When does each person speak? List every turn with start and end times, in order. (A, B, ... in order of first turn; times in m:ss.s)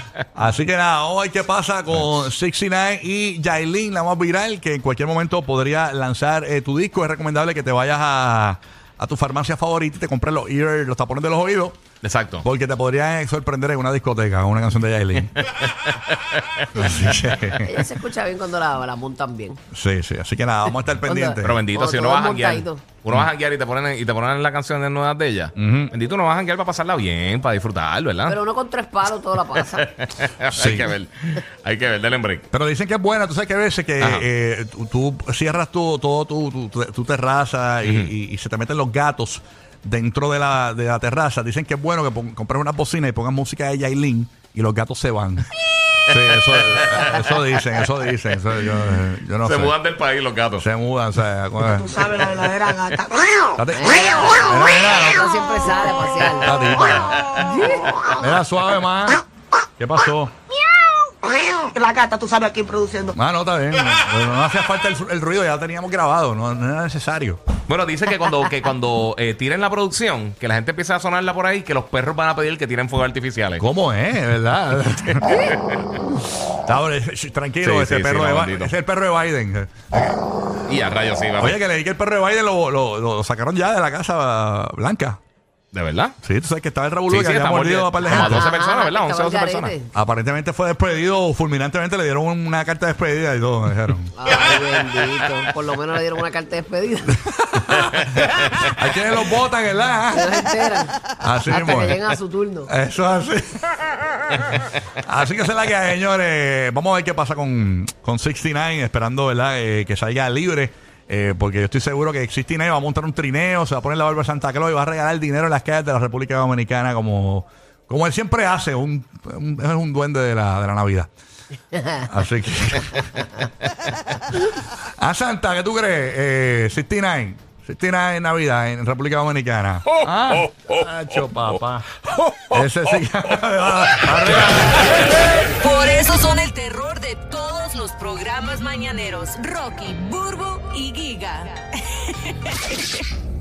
0:00.3-0:11.8 A
0:12.0-0:12.4 B
0:12.4-0:15.4 A
0:15.4-0:17.2 B
0:16.7-0:17.8 A
0:17.5-0:19.6 C
0:19.7-0:21.6 A
0:21.0-0:22.8 C
0:21.4-0:28.4 B
0:25.6-0:25.9 A
0:28.2-0:29.9 C
0:29.5-0:32.5 B
0:30.5-0:30.9 A
0:32.5-0:45.5 A
0:34.0-0:34.3 B
0:37.8-0:38.1 B
0:46.0-0:49.8 A
0:49.4-0:50.6 B
0:50.6-0:52.1 A
0:51.7-0:53.5 D
0:53.5-0:55.4 A
0:53.7-0:56.6 C
0:56.3-0:59.2 A
0:57.3-0:58.1 D
0:57.5-0:57.9 C
0:59.8-1:00.3 A
1:01.2-1:03.1 D
1:03.1-1:07.4 A
1:07.7-1:13.6 B
1:13.6-1:15.6 A
1:15.3-1:15.9 B
1:16.5-1:20.2 A
1:17.6-1:18.7 B
1:20.7-1:21.6 B
1:21.4-1:25.2 A
1:25.7-1:26.2 B
1:26.2-1:28.5 A
1:27.1-1:29.7 B
1:28.2-1:29.9 C
1:29.9-1:34.2 A
1:34.1-1:37.2 C
1:37.2-1:40.5 A
1:37.8-1:38.6 B
1:40.0-1:42.7 C
1:41.0-1:42.0 A
1:42.7-2:01.1 A
2:01.9-2:03.4 A
2:05.0-2:11.9 A
2:12.4-2:15.2 A
2:14.8-2:23.0 E